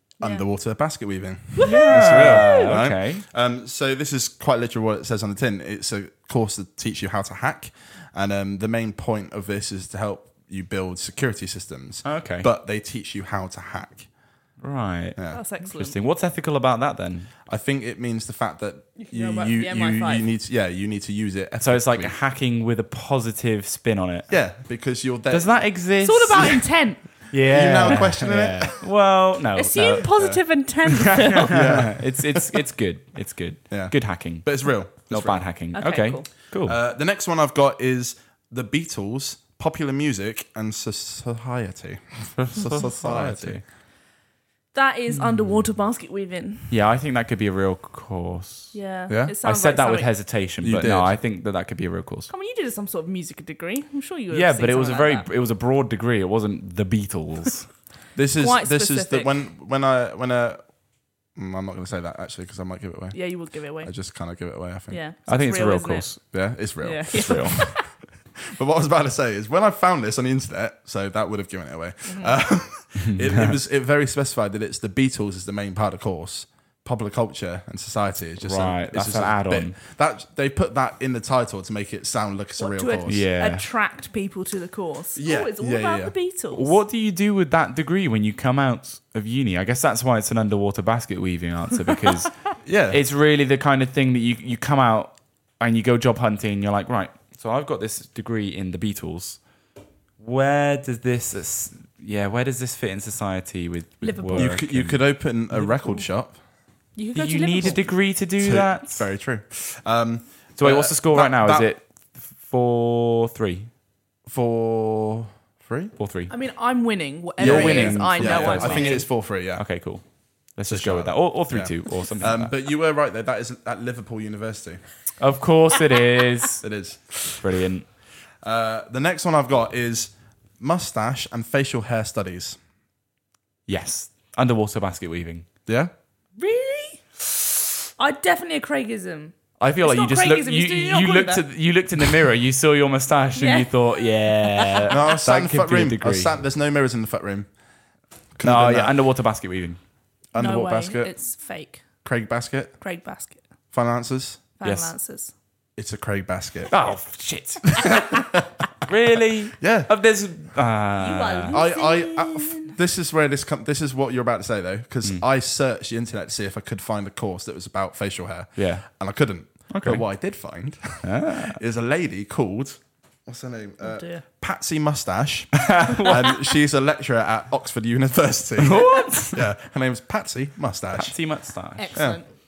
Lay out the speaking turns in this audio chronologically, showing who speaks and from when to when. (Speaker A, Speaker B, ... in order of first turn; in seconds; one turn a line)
Speaker A: 0.2-14.1
Speaker B: 0.2-0.5
Speaker B: 1.6-2.7
Speaker C: 1.6-3.2
Speaker C: 12.0-12.5
Speaker C: 14.6-17.3
Speaker A: 15.2-15.4
Speaker B: 15.3-16.0
Speaker A: 17.5-22.1
Speaker B: 18.9-20.2
Speaker C: 21.6-24.3
Speaker A: 24.3-25.7
Speaker C: 25.3-26.6
Speaker B: 26.0-27.0
Speaker A: 26.3-26.6
Speaker C: 27.3-30.1
Speaker A: 27.3-28.8
Speaker B: 29.5-31.6
Speaker A: 30.1-30.4
Speaker C: 31.5-36.8
Speaker A: 31.5-32.4
Speaker A: 33.7-35.5
Speaker B: 35.7-36.3
Speaker A: 36.6-43.6
Speaker C: 42.3-43.6
Speaker B: 44.7-46.7
Speaker C: 45.1-45.6
Speaker C: 46.7-48.8
Speaker B: 48.7-50.1
Speaker A: 49.1-49.3
Speaker C: 49.4-52.3
Speaker A: 50.6-51.1
Speaker B: 52.3-55.3
Speaker C: 54.3-57.7
Speaker A: 58.1-60.6
Speaker B: 58.4-59.3
Speaker A: 61.3-65.0
Speaker B: 63.1-63.9
Speaker B: 64.9-66.3
Speaker C: 65.3-66.2
Speaker A: 66.3-67.8
Speaker B: 66.8-67.8
Speaker C: 67.1-67.5
Speaker A: 68.4-83.2
Speaker B: 72.0-72.4
Speaker C: 73.0-73.6
Speaker C: 78.4-79.8
Speaker B: 82.6-86.8
Speaker C: 83.0-83.7
Speaker A: 85.2-86.1
Speaker C: 86.5-92.3
Speaker A: 92.6-93.0
Speaker C: 92.9-99.4
Speaker C: 100.2-106.0
Speaker B: 104.0-104.6
Speaker A: 104.4-106.4
Speaker B: 107.0-107.8
Speaker C: 107.1-109.1
Speaker A: 107.6-111.7
Speaker C: 110.6-113.7
Speaker A: 114.2-115.9
Speaker C: 116.0-116.3
Speaker B: 116.3-119.1
Speaker C: 117.4-122.5
Speaker A: 117.4-119.7
Speaker A: 120.7-124.8
Speaker C: 125.2-126.6
Speaker A: 126.6-127.4
Speaker C: 127.4-127.9
Speaker A: 128.4-132.6
Speaker C: 133.7-135.5
Speaker A: 135.7-135.9
Speaker B: 136.4-137.4
Speaker B: 138.0-141.5
Speaker C: 139.6-146.3
Speaker B: 143.4-144.9
Speaker A: 144.9-147.5
Speaker A: 148.4-148.9
Speaker C: 148.4-149.8
Speaker A: 150.3-151.1
Speaker B: 150.3-151.9
Speaker A: 152.0-152.8
Speaker B: 152.8-153.4
Speaker A: 153.7-154.4
Speaker B: 154.6-155.3
Speaker C: 154.6-154.9
Speaker A: 155.8-156.8
Speaker C: 156.7-158.2
Speaker C: 158.8-161.6
Speaker A: 159.6-159.9
Speaker B: 161.0-162.8
Speaker A: 161.5-181.2
Speaker C: 168.6-168.9
Speaker C: 169.7-170.1
Speaker C: 171.0-171.6
Speaker B: 173.8-174.2
Speaker C: 175.7-176.2
Speaker C: 178.6-179.4
Speaker B: 178.9-179.2
Speaker C: 180.9-182.0
Speaker B: 181.8-182.3
Speaker A: 181.9-182.2